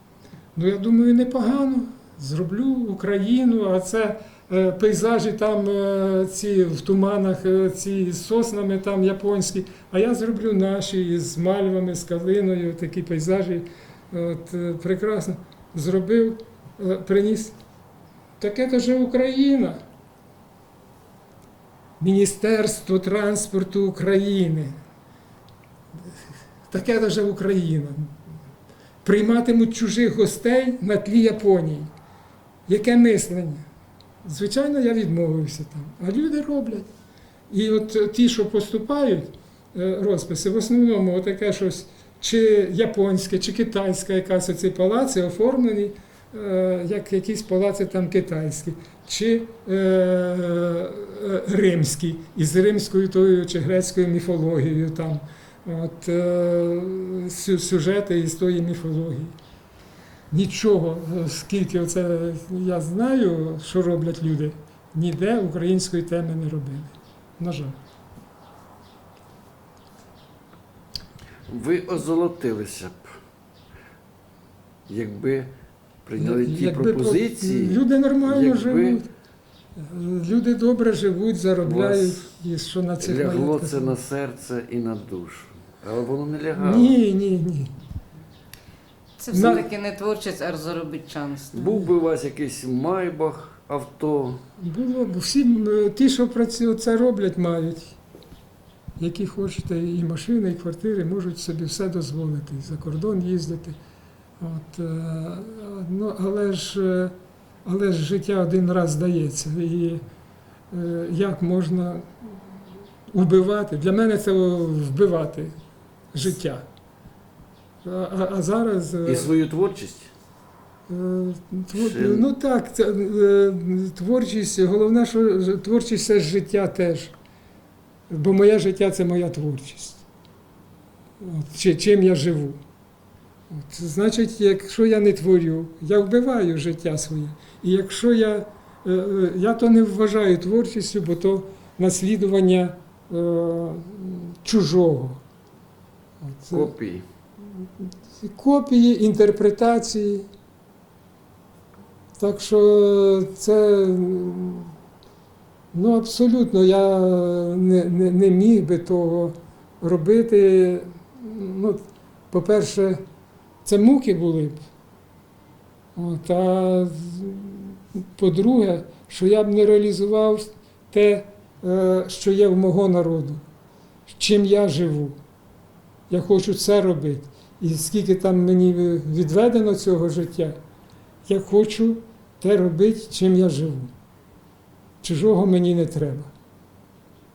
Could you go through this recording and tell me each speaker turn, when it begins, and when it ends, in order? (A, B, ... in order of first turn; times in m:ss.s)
0:00.5-0:17.6 A
0:18.4-0:19.8 A
0:22.0-0:24.7 A
0:26.7-0:28.1 A
0:29.0-0:31.9 A
0:32.7-0:33.6 A
0:34.2-0:36.9 A
0:37.5-0:59.3 A
1:00.3-1:07.8 A
1:11.5-1:13.1 B
1:14.9-1:15.5 B
1:16.0-1:19.0 B
1:16.2-1:19.1 A
1:19.8-1:23.9 A
1:21.6-1:22.3 B
1:23.0-1:26.9 B
1:26.6-1:27.7 A
1:29.2-1:31.7 C
1:29.3-1:29.7 A
1:31.5-1:34.4 B
1:34.6-1:38.0 A
1:39.0-1:43.8 A
1:44.4-1:47.1 A
1:47.6-1:50.0 A
1:50.7-1:52.4 A
1:53.1-1:55.5 A
1:56.1-1:56.6 A
1:57.8-1:59.3 A
1:59.0-2:00.1 B
2:00.9-2:07.1 A
2:01.7-2:02.3 B
2:08.1-2:10.0 A
2:11.2-2:12.6 A
2:13.5-2:25.2 A
2:26.2-2:26.7 A
2:26.5-2:27.0 B
2:27.6-2:30.3 A
2:32.2-2:34.7 A
2:35.7-2:43.0 A
2:43.6-2:44.6 A
2:45.9-2:53.4 A
2:54.1-2:55.2 A
2:56.1-3:00.6 A
3:01.2-3:03.9 A
3:05.0-3:06.3 A